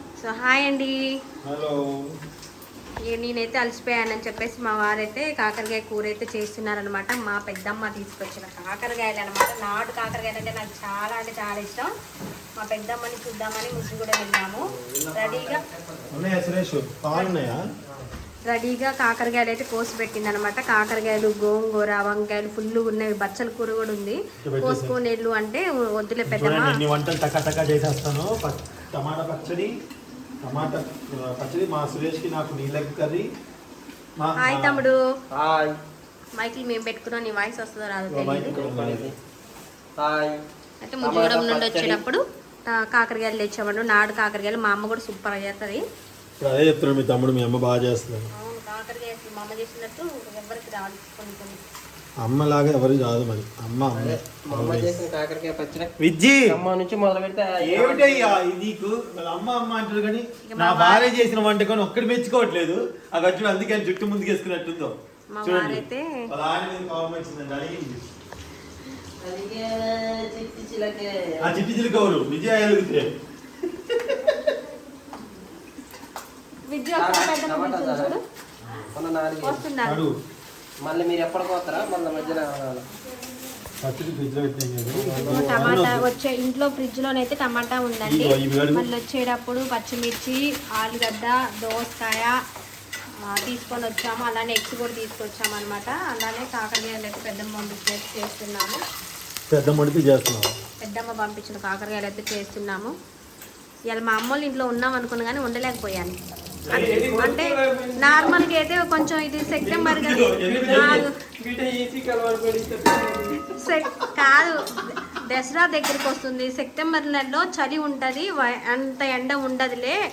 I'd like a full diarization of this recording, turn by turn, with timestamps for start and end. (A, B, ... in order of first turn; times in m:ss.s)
0:00.2-0:00.9 A
0:01.4-0:01.8 B
0:03.1-0:11.9 A
0:12.6-0:15.6 A
0:14.8-0:16.3 C
0:16.1-0:17.6 B
0:18.5-0:26.8 A
0:24.4-0:25.0 B
0:26.3-0:29.7 B
0:30.4-0:33.3 B
0:34.2-0:34.8 B
0:34.4-0:35.0 A
0:35.3-0:35.8 C
0:36.4-0:38.6 A
0:38.1-0:39.1 B
0:38.5-0:39.1 C
0:40.0-0:40.3 C
0:40.8-0:45.8 A
0:41.0-0:42.0 C
0:46.4-0:48.2 B
0:48.4-0:51.6 A
0:52.2-0:55.0 B
0:53.9-0:55.9 C
0:56.0-0:56.5 B
0:56.5-0:58.4 C
0:57.6-1:08.0 B
1:00.5-1:01.1 A
1:05.3-1:06.3 A
1:09.2-1:11.6 C
1:11.4-1:14.5 B
1:16.7-1:18.2 A
1:17.0-1:18.2 C
1:18.6-1:18.9 B
1:18.9-1:19.6 C
1:19.4-1:20.0 A
1:19.8-1:20.1 B
1:20.8-1:22.9 C
1:23.8-1:26.0 B
1:24.9-1:25.7 C
1:25.3-1:32.3 A
1:28.0-1:28.9 B
1:33.2-1:38.8 A
1:39.5-1:40.5 B
1:40.8-1:42.9 A
1:43.9-1:46.2 A
1:46.6-1:47.2 B
1:46.7-1:51.1 A
1:46.8-1:48.4 C
1:49.6-1:51.1 B
1:50.6-1:53.5 C
1:53.6-2:00.0 A